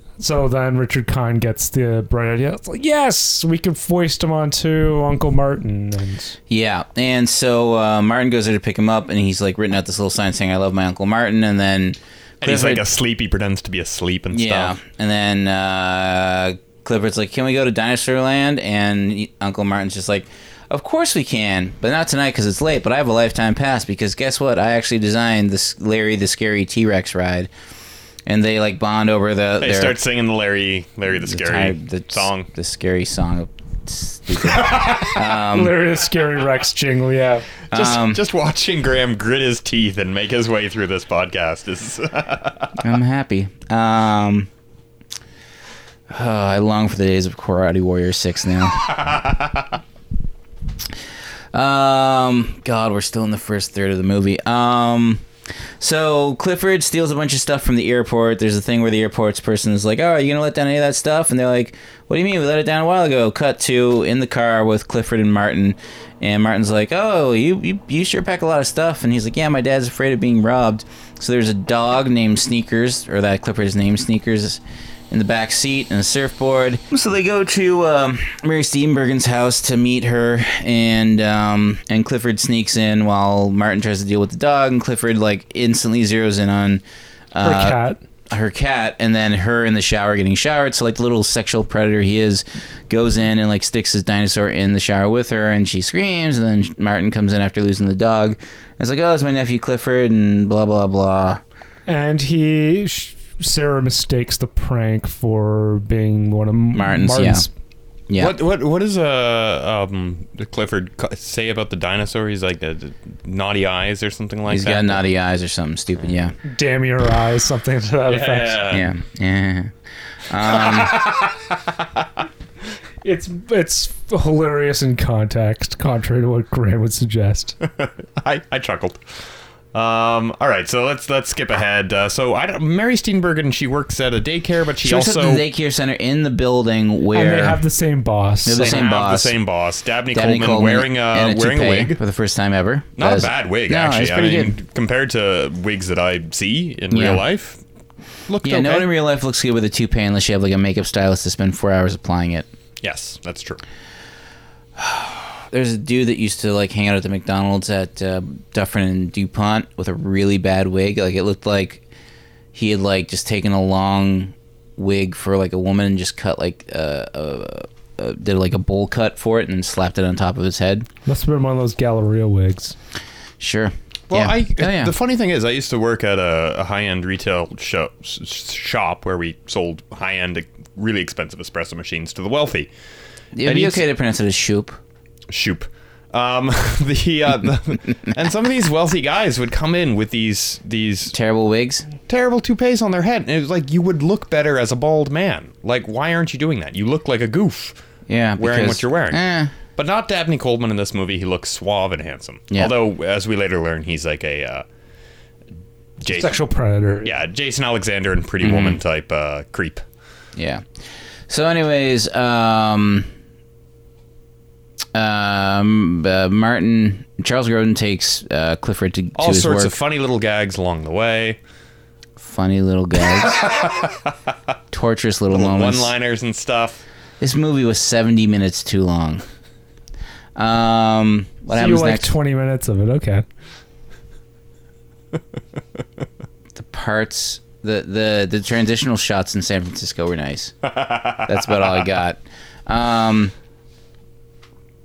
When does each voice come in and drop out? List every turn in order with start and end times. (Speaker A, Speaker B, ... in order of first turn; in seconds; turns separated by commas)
Speaker A: 0.2-6.3, Speaker B: 6.5-12.8, Speaker C: 12.4-14.8, Speaker B: 14.3-27.5, Speaker B: 28.2-30.0, Speaker C: 29.6-32.5, Speaker B: 31.2-35.8, Speaker C: 34.5-35.1, Speaker A: 35.4-37.5, Speaker B: 37.7-38.2, Speaker C: 37.7-42.7, Speaker B: 42.8-44.5, Speaker B: 46.1-48.9, Speaker C: 48.9-49.4, Speaker B: 51.5-55.2, Speaker B: 55.8-74.6, Speaker B: 75.1-87.8, Speaker A: 87.4-88.0, Speaker B: 88.3-101.4, Speaker A: 101.9-107.5, Speaker B: 106.7-107.5, Speaker C: 108.2-115.0, Speaker B: 114.5-116.3, Speaker A: 116.5-118.7, Speaker C: 118.1-118.8, Speaker B: 118.7-119.7, Speaker B: 120.3-121.1, Speaker C: 120.5-122.0, Speaker A: 123.0-127.5, Speaker C: 127.6-129.0, Speaker C: 129.7-135.4, Speaker B: 134.8-137.6, Speaker A: 137.1-138.8, Speaker B: 138.4-139.3, Speaker C: 138.6-142.0, Speaker B: 140.1-144.6, Speaker C: 143.0-147.6, Speaker B: 146.9-147.2, Speaker C: 148.3-148.9, Speaker B: 148.4-152.5, Speaker C: 152.8-153.6, Speaker B: 154.8-161.8, Speaker B: 162.5-170.9, Speaker A: 171.1-172.7, Speaker B: 173.4-174.9, Speaker C: 174.1-182.7, Speaker B: 183.3-184.8, Speaker C: 183.4-183.8, Speaker C: 185.3-191.1, Speaker B: 191.1-191.9, Speaker C: 192.1-197.8, Speaker B: 198.1-199.5, Speaker C: 198.4-199.2, Speaker C: 199.8-204.6, Speaker C: 206.0-206.4, Speaker A: 206.1-207.1, Speaker C: 207.0-209.8, Speaker B: 208.4-208.8, Speaker B: 210.3-210.6, Speaker B: 211.3-213.1, Speaker B: 214.9-219.7, Speaker C: 219.2-221.4, Speaker B: 222.2-223.6, Speaker C: 223.4-223.8, Speaker B: 224.7-225.9, Speaker C: 225.3-226.8, Speaker B: 227.2-229.2, Speaker B: 230.3-232.1, Speaker A: 231.5-233.2, Speaker B: 236.6-240.5, Speaker C: 240.7-241.3, Speaker B: 241.3-243.3